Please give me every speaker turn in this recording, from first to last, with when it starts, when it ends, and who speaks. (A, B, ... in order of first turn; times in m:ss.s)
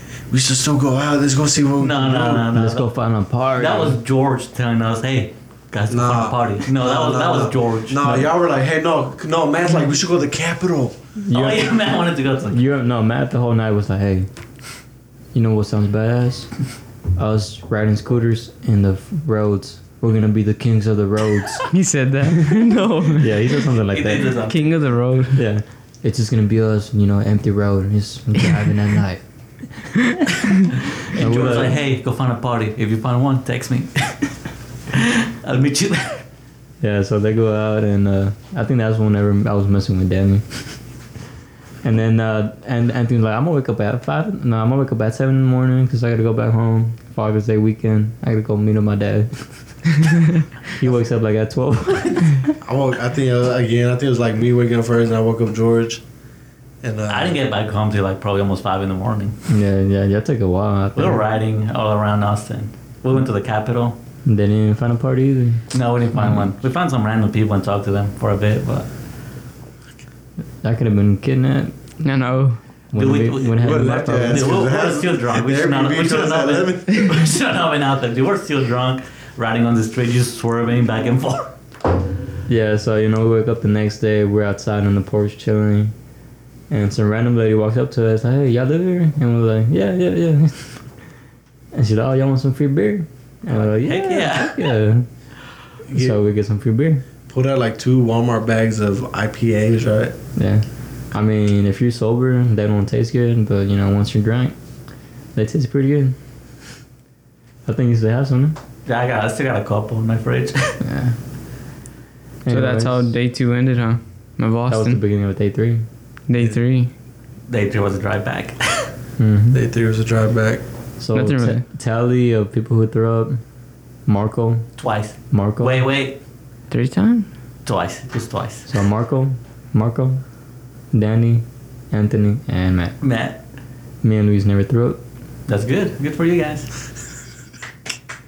0:00.3-0:02.5 A
0:01.8-0:02.9 B
0:02.5-0:04.0 C
0:03.6-0:08.0 B
0:05.9-0:11.0 A
0:08.0-0:08.3 C
0:11.2-0:11.7 C
0:11.3-0:12.6 B
0:12.5-0:14.3 C
0:15.3-0:16.6 C
0:17.2-0:21.7 C
0:21.7-0:23.3 D
0:23.2-0:24.4 C
0:23.9-0:24.8 B
0:24.5-0:25.4 D
0:25.4-0:29.9 C
0:31.1-0:34.3 B
0:31.2-0:31.8 C
0:34.9-0:36.2 B
0:36.8-0:40.8 C
0:41.8-0:49.5 C
0:50.8-0:52.6 C
0:52.6-0:56.0 A
0:56.8-0:57.4 A
0:57.1-0:59.4 B
0:59.5-1:01.2 C
1:01.0-1:04.0 B
1:04.3-1:06.5 C
1:05.7-1:08.9 B
1:10.6-1:11.8 C
1:12.0-1:12.6 D
1:12.9-1:14.5 C
1:12.9-1:21.5 B
1:13.6-1:17.3 A
1:22.5-1:25.9 C
1:26.7-1:30.8 C
1:31.7-1:35.1 C
1:33.7-1:34.7 B
1:35.9-1:36.2 A
1:35.9-1:37.0 C
1:37.3-1:40.2 A
1:40.4-1:44.6 C
1:45.4-1:46.2 C
1:47.7-1:48.6 C
1:48.9-1:50.8 B
1:50.8-1:51.2 C
1:52.4-1:53.2 C
1:52.5-1:55.0 D
1:54.7-1:55.8 C
1:56.3-1:56.9 D
1:57.5-1:58.9 B
1:59.2-1:59.6 C
1:59.5-2:00.6 A
2:01.0-2:03.4 C
2:01.2-2:01.6 D
2:04.1-2:04.7 C
2:04.8-2:06.2 B
2:05.3-2:05.9 C
2:06.7-2:07.3 D
2:07.7-2:08.7 B
2:08.7-2:10.2 C
2:10.9-2:13.0 C
2:13.0-2:13.4 B
2:14.0-2:15.0 C
2:15.5-2:16.7 B